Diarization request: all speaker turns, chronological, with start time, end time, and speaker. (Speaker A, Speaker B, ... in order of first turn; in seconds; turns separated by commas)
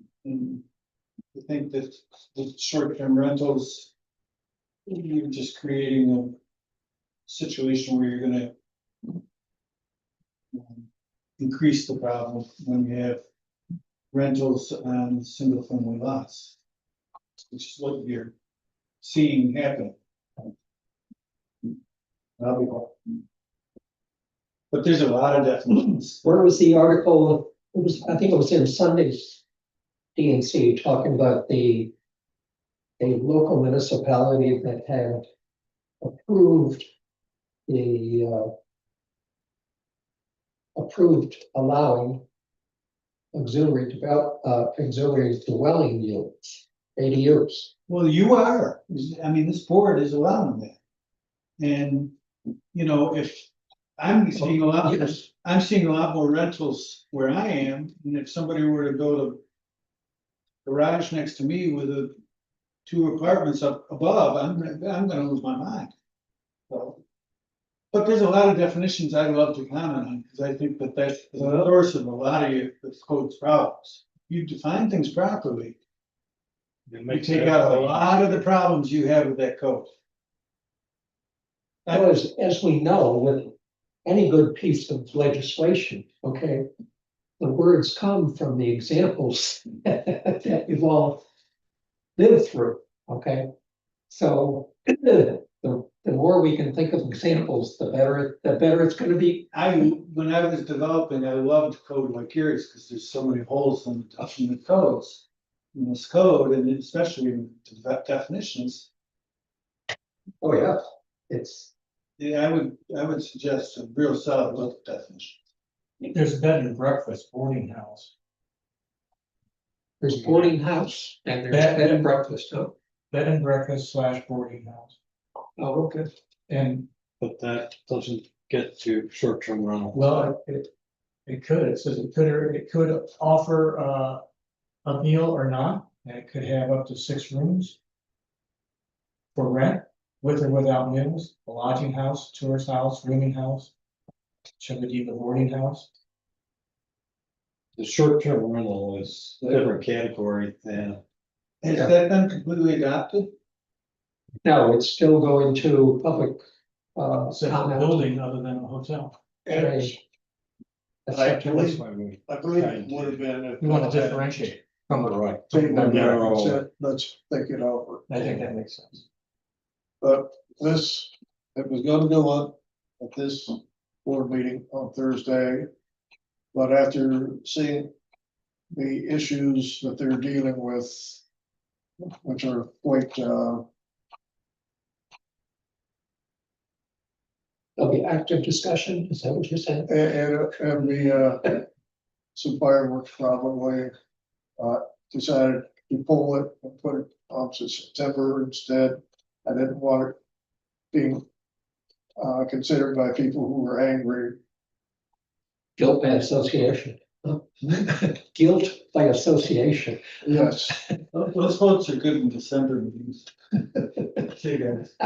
Speaker A: 0.2-0.6, Speaker A: 1.3-3.9, Speaker A: 4.9-6.4, Speaker A: 7.3-8.5, Speaker A: 10.5-10.9, Speaker A: 11.4-13.2, Speaker A: 14.1-16.6, Speaker A: 17.4-18.3, Speaker A: 19.0-20.5, Speaker A: 22.4-23.1, Speaker A: 24.7-26.2, Speaker B: 26.2-29.4, Speaker B: 30.1-31.9, Speaker B: 33.0-35.3, Speaker B: 36.0-36.9, Speaker B: 37.7-38.5, Speaker B: 40.8-42.2, Speaker B: 43.3-47.7, Speaker A: 47.9-50.8, Speaker A: 51.6-52.1, Speaker A: 52.7-59.4, Speaker B: 54.8-55.2, Speaker A: 60.6-62.1, Speaker A: 62.9-65.9, Speaker A: 66.7-67.0, Speaker A: 67.9-75.8, Speaker C: 76.9-78.1, Speaker A: 77.1-79.9, Speaker A: 81.8-82.1, Speaker B: 81.9-83.5, Speaker B: 84.0-86.7, Speaker B: 87.4-91.2, Speaker B: 92.2-93.5, Speaker B: 94.1-99.5, Speaker A: 99.5-108.9, Speaker B: 110.4-111.7, Speaker A: 112.2-115.3, Speaker D: 116.0-118.1, Speaker B: 120.0-122.7, Speaker D: 120.2-120.5, Speaker D: 121.5-122.1, Speaker D: 123.1-124.9, Speaker B: 125.6-126.1, Speaker D: 126.5-126.9, Speaker C: 127.2-130.1, Speaker B: 130.0-130.7, Speaker D: 130.0-130.3, Speaker D: 131.3-134.2, Speaker D: 134.8-137.8, Speaker D: 139.3-143.7, Speaker D: 144.6-145.9, Speaker C: 147.8-151.0, Speaker A: 151.6-153.3, Speaker B: 154.4-156.4, Speaker B: 156.9-158.1, Speaker D: 157.3-159.2, Speaker B: 159.5-160.0, Speaker E: 159.5-159.9, Speaker B: 161.1-161.7, Speaker E: 161.1-164.5, Speaker C: 161.6-163.2, Speaker D: 163.6-166.1, Speaker C: 164.9-166.6, Speaker E: 165.5-168.1, Speaker D: 168.1-169.0, Speaker E: 170.0-175.7, Speaker E: 176.5-177.9, Speaker E: 178.7-181.2, Speaker E: 182.2-183.6, Speaker B: 187.8-189.9, Speaker E: 189.9-191.7, Speaker E: 192.3-193.9, Speaker E: 194.6-200.2, Speaker E: 200.9-201.2, Speaker E: 202.2-204.4, Speaker B: 205.8-211.0, Speaker E: 210.2-210.8, Speaker A: 211.1-213.3, Speaker A: 214.1-215.0